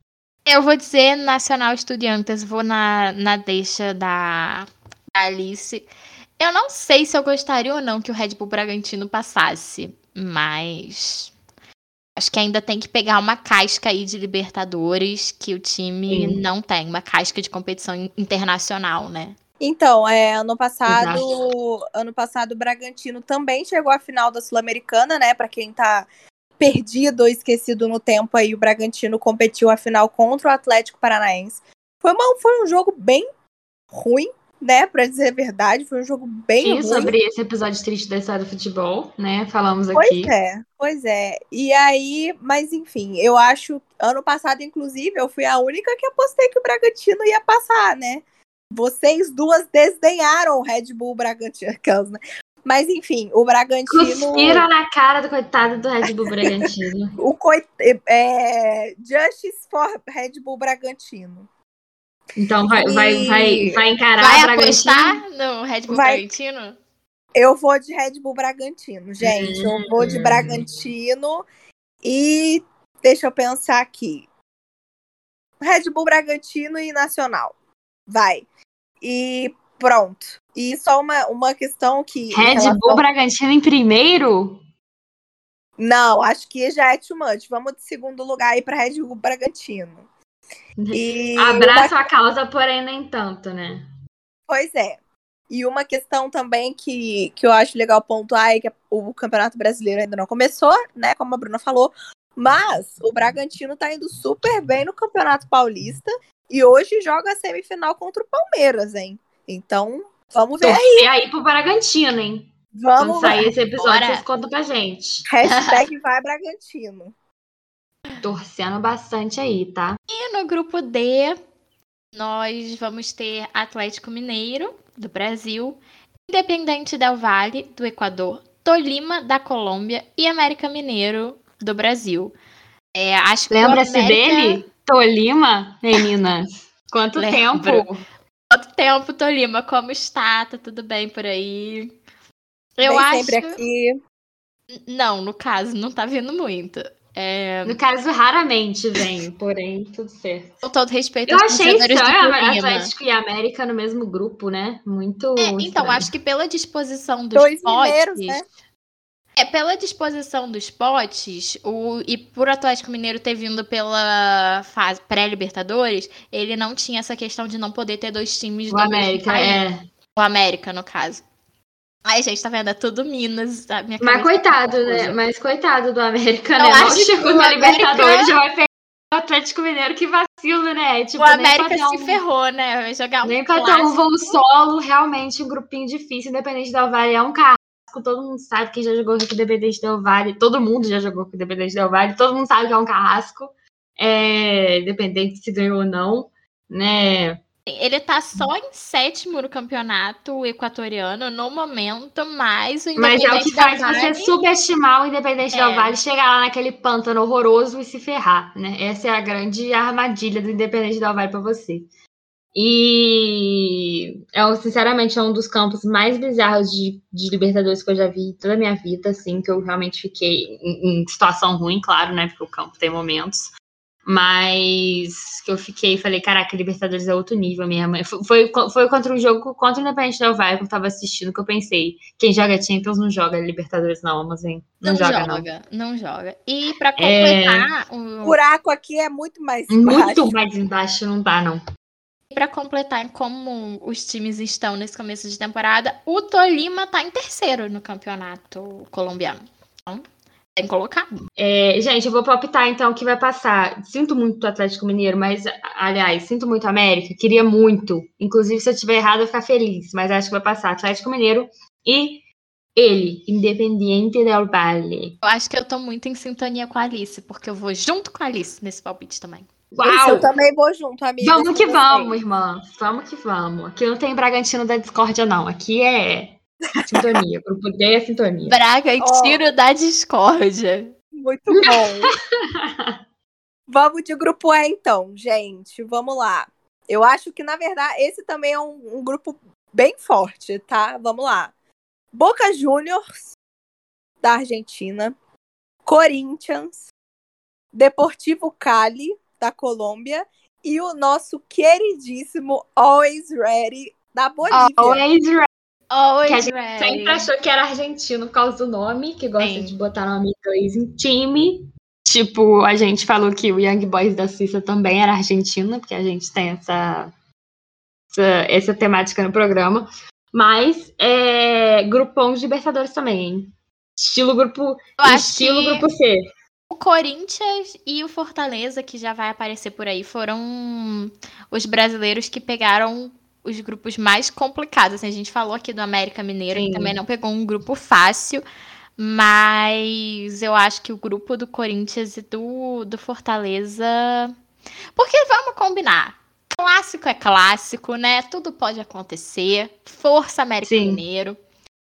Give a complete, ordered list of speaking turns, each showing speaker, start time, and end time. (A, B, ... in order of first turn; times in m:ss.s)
0:00.5-0:05.9 A
0:06.4-0:11.3 A
0:12.2-0:19.4 A
0:16.1-0:16.4 B
0:19.6-0:26.1 C
0:20.9-0:21.3 B
0:26.6-0:33.3 C
0:33.9-0:37.1 C
0:36.6-0:40.3 B
0:39.9-0:54.7 C
0:53.9-0:57.2 B
0:57.2-1:01.5 C
1:02.4-1:05.2 B
1:02.7-1:03.8 C
1:04.2-1:06.8 A
1:05.9-1:06.2 C
1:07.4-1:11.5 C
1:09.2-1:10.8 B
1:12.0-1:14.3 C
1:15.6-1:17.6 C
1:18.1-1:18.5 C
1:19.0-1:23.0 C
1:22.3-1:24.6 B
1:25.8-1:30.0 C
1:30.8-1:33.9 B
1:30.9-1:32.0 C
1:34.5-1:35.0 C
1:35.5-1:51.1 C
1:50.6-1:55.3 B
1:52.7-1:53.4 C
1:53.8-1:54.2 A
1:55.3-1:57.1 C
1:55.5-1:55.8 A
1:58.2-2:00.0 B
2:00.1-2:01.4 A
2:02.1-2:12.4 A
2:12.9-2:14.6 A
2:13.5-2:18.0 B
2:17.2-2:17.9 A
2:18.5-2:21.9 A
2:22.8-2:23.6 A
2:22.8-2:24.0 C
2:24.8-2:27.8 A
2:27.6-2:30.6 B
2:30.6-2:32.9 A
2:31.3-2:36.1 B
2:35.4-2:38.5 A
2:37.4-2:38.4 C
2:39.4-2:49.6 A
2:48.7-2:49.8 B
2:50.2-2:51.2 A
2:52.0-2:55.2 A
2:54.0-3:02.2 B
2:56.6-2:58.3 A
3:01.2-3:04.4 A
3:03.2-3:17.4 B
3:17.7-3:24.3 A
3:23.0-3:31.9 B
3:25.5-3:26.0 A
3:32.6-3:43.5 B
3:44.1-3:55.5 B
3:54.8-3:58.4 A
3:57.0-3:57.7 B
3:58.2-4:00.3 C
3:59.7-4:01.6 B
4:02.3-4:10.0 A
4:10.6-4:11.1 A
4:11.4-4:22.2 B
4:22.8-4:25.2 B
4:25.2-4:29.5 A
4:29.7-4:30.3 B
4:29.8-4:32.2 C
4:31.2-4:38.6 B
4:36.8-4:37.2 C
4:38.5-4:40.9 A
4:39.0-4:39.5 C
4:41.1-4:42.1 C
4:41.5-4:43.0 B
4:43.7-4:51.5 C
4:52.1-4:53.3 C
4:54.2-4:55.2 C
4:55.9-4:56.9 C
4:57.7-5:05.0 C
5:04.5-5:05.5 B
5:05.9-5:07.3 A
5:06.2-5:17.1 B
5:09.4-5:09.8 A
5:18.1-5:26.2 B
5:25.0-5:25.8 A
5:26.7-5:38.4 A
5:36.5-5:37.0 B
5:39.0-5:44.3 A
5:45.0-5:51.4 A
5:50.6-5:51.0 B